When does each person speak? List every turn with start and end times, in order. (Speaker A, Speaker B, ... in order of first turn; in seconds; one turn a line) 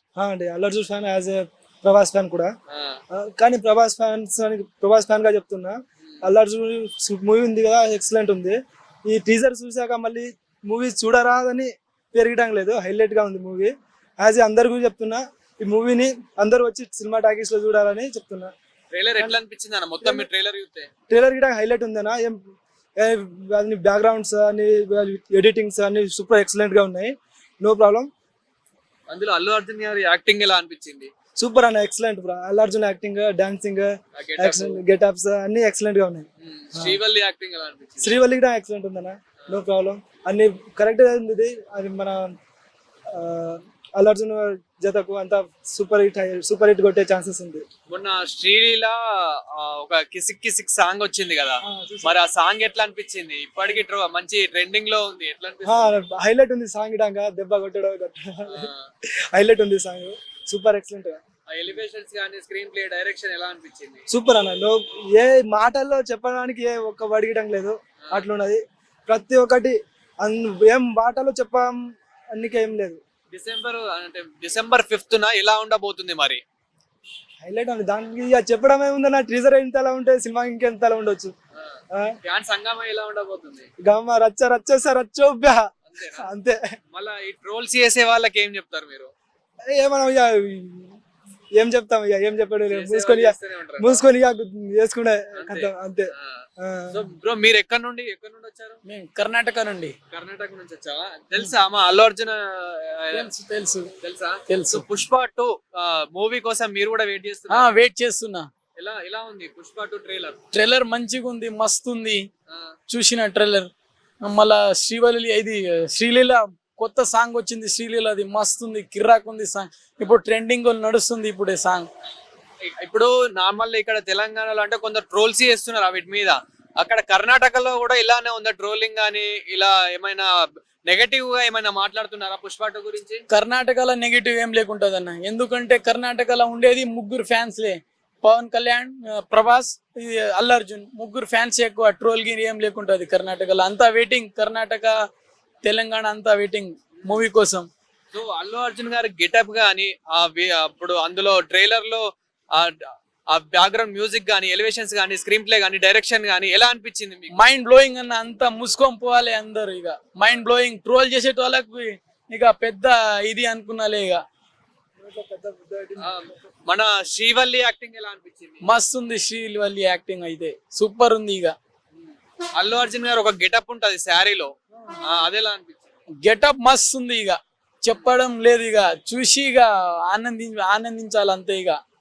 Speaker A: 0.2-2.5
Speaker B: 2.7-3.0
Speaker A: 3.1-18.5
Speaker B: 18.9-20.9
Speaker A: 20.0-20.3
Speaker A: 21.1-22.4
Speaker A: 23.0-28.1
Speaker B: 29.1-31.1
Speaker A: 31.4-37.0
Speaker B: 34.2-34.8
Speaker B: 36.4-38.2
Speaker A: 38.0-42.3
Speaker A: 43.1-47.6
Speaker B: 47.9-55.9
Speaker A: 51.6-52.2
Speaker A: 55.7-58.7
Speaker B: 58.5-58.9
Speaker A: 59.3-61.2
Speaker B: 61.5-64.0
Speaker A: 64.1-71.8
Speaker A: 72.3-73.0
Speaker B: 73.3-76.4
Speaker A: 77.4-81.3
Speaker B: 81.6-83.7
Speaker A: 83.8-86.6
Speaker B: 85.9-86.3
Speaker B: 86.9-89.1
Speaker A: 89.7-91.0
Speaker A: 91.6-97.0
Speaker B: 92.7-94.0
Speaker B: 95.4-98.8
Speaker C: 98.8-99.9
Speaker B: 100.1-103.3
Speaker C: 103.1-103.9
Speaker B: 104.0-107.8
Speaker C: 104.5-104.9
Speaker C: 107.5-108.5
Speaker B: 108.8-110.4
Speaker C: 110.5-112.2
Speaker C: 112.9-113.7
Speaker C: 114.2-121.9
Speaker B: 122.7-130.3
Speaker B: 130.9-133.2
Speaker C: 133.3-145.0
Speaker C: 145.6-147.7
Speaker B: 148.1-152.0
Speaker B: 152.6-157.3
Speaker C: 157.3-164.2
Speaker A: 165.0-166.3
Speaker B: 166.0-168.6
Speaker C: 168.6-171.6
Speaker B: 171.9-174.5
Speaker B: 175.1-175.9
Speaker C: 176.2-181.8